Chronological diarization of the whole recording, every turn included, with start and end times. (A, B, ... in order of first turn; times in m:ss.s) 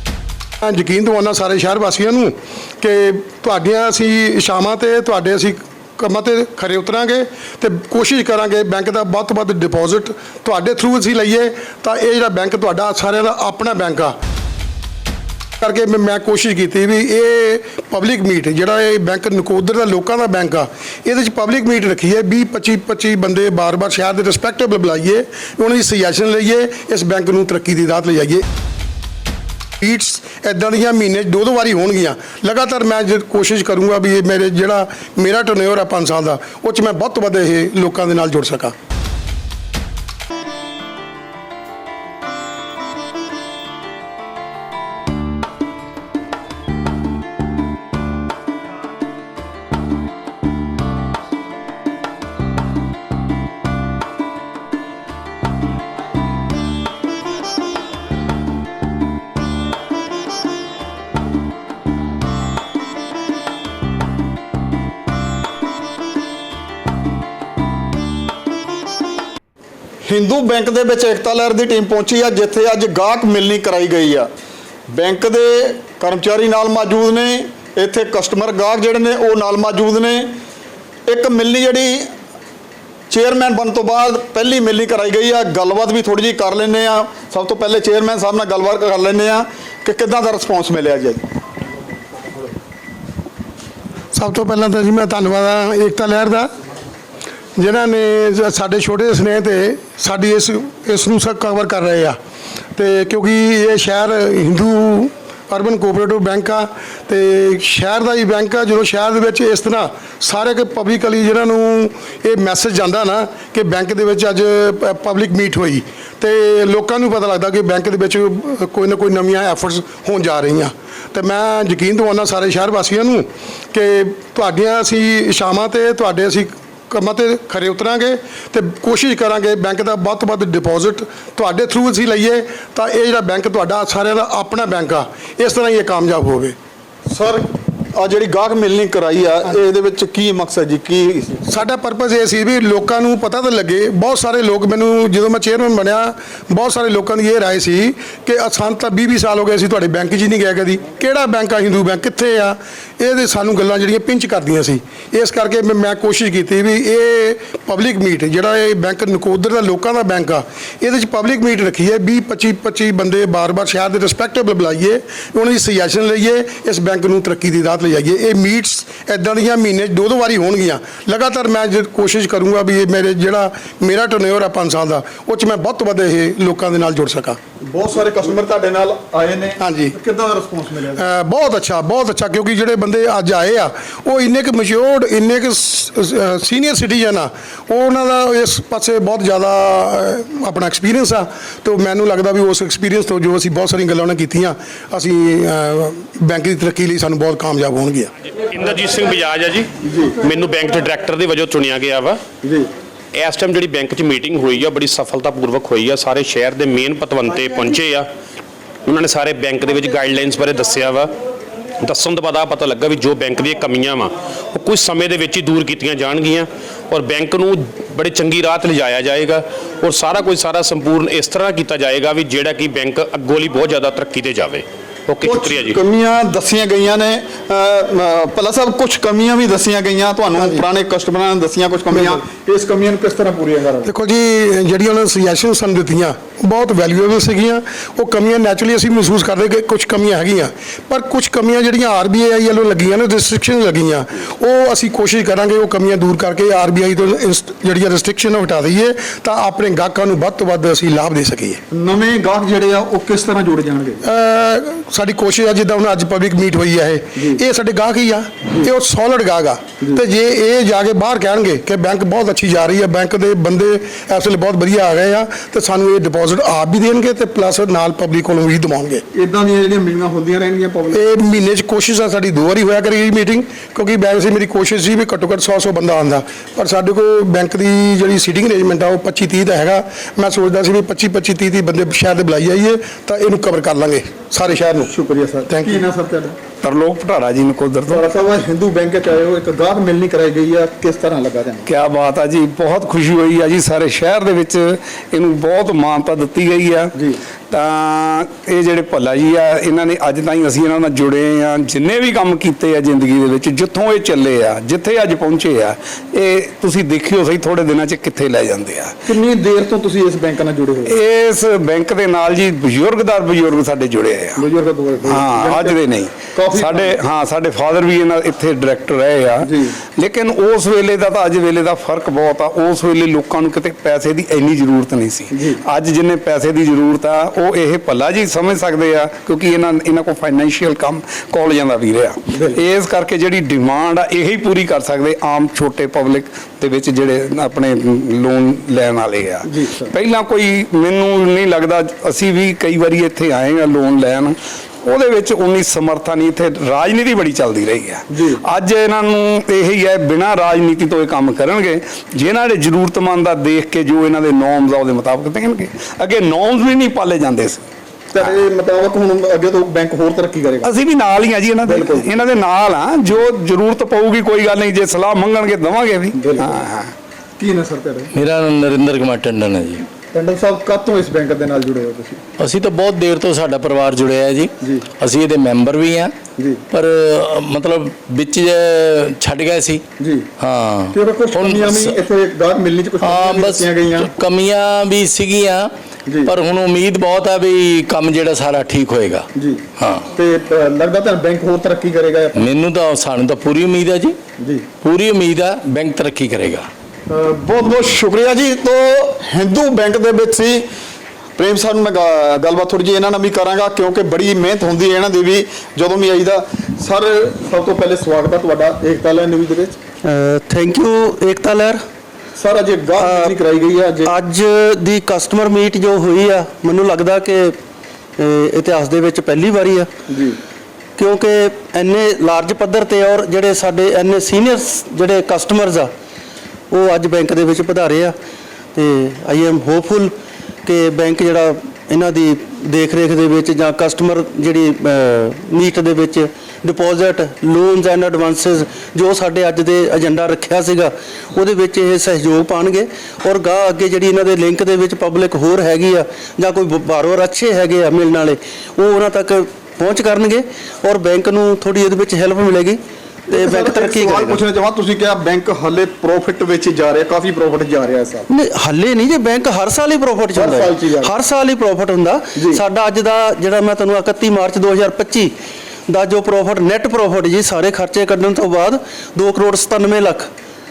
0:00.6-0:14.2 A
0:15.6-0:28.4 A
0:29.8-0:38.7 A
1:10.0-1:14.3 B
1:14.9-1:20.3 B
1:21.1-1:22.1 B
1:23.1-1:31.2 B
1:34.1-1:36.5 A
1:37.6-1:42.2 A
1:42.8-2:16.6 A
2:17.1-2:21.5 B
2:21.5-2:57.4 A
2:57.7-3:01.0 B
2:59.6-3:00.0 A
3:01.0-3:18.1 A
3:18.5-3:22.2 C
3:19.9-3:20.2 B
3:22.4-3:22.7 B
3:23.1-3:28.1 C
3:28.8-3:31.2 C
3:31.8-3:45.8 C
3:45.2-3:53.9 B
3:53.8-4:11.6 A
4:11.7-4:14.0 B
4:14.0-4:29.0 A
4:29.1-4:31.0 B
4:30.9-4:44.9 A
4:44.9-4:46.4 B
4:45.5-4:45.8 A
4:46.6-4:48.0 D
4:47.9-4:51.7 B
4:51.7-4:56.9 D
4:57.5-5:09.0 D
5:09.1-5:11.0 B
5:10.9-5:14.4 D
5:14.4-5:15.8 B
5:15.0-5:57.6 D
5:16.3-5:17.0 B
5:19.4-5:19.8 B
5:25.3-5:25.6 B
5:39.5-5:39.9 B
5:48.1-5:48.4 B
5:58.1-6:00.7 B
6:00.6-6:06.9 D
6:01.6-6:02.2 B
6:06.2-6:06.6 B
6:07.4-6:08.1 B
6:08.2-6:09.9 E
6:10.1-6:12.2 B
6:12.4-6:16.1 E
6:14.6-6:14.9 B
6:16.4-6:16.6 B
6:16.7-6:19.8 E
6:20.0-6:20.3 B
6:20.4-6:22.0 E
6:20.9-6:24.2 B
6:23.0-6:25.7 E
6:26.1-6:26.3 B
6:26.3-6:29.2 E
6:29.4-6:32.4 B
6:29.8-6:30.1 E
6:32.4-6:34.2 E
6:34.4-6:34.7 B
6:34.8-6:36.7 E
6:37.1-6:40.6 B
6:41.4-6:49.8 B
6:50.0-6:51.8 F
6:52.4-6:54.1 B
6:53.0-6:53.4 F
6:54.0-6:57.6 F
6:58.2-6:59.9 F
7:00.1-7:00.4 B
7:01.0-7:05.9 F
7:06.7-7:08.2 F
7:08.8-7:10.1 F
7:10.6-7:34.4 F
7:33.3-7:38.3 B
7:38.3-7:45.3 F
7:40.4-7:41.2 B
7:42.4-7:42.6 B
7:45.9-7:50.3 F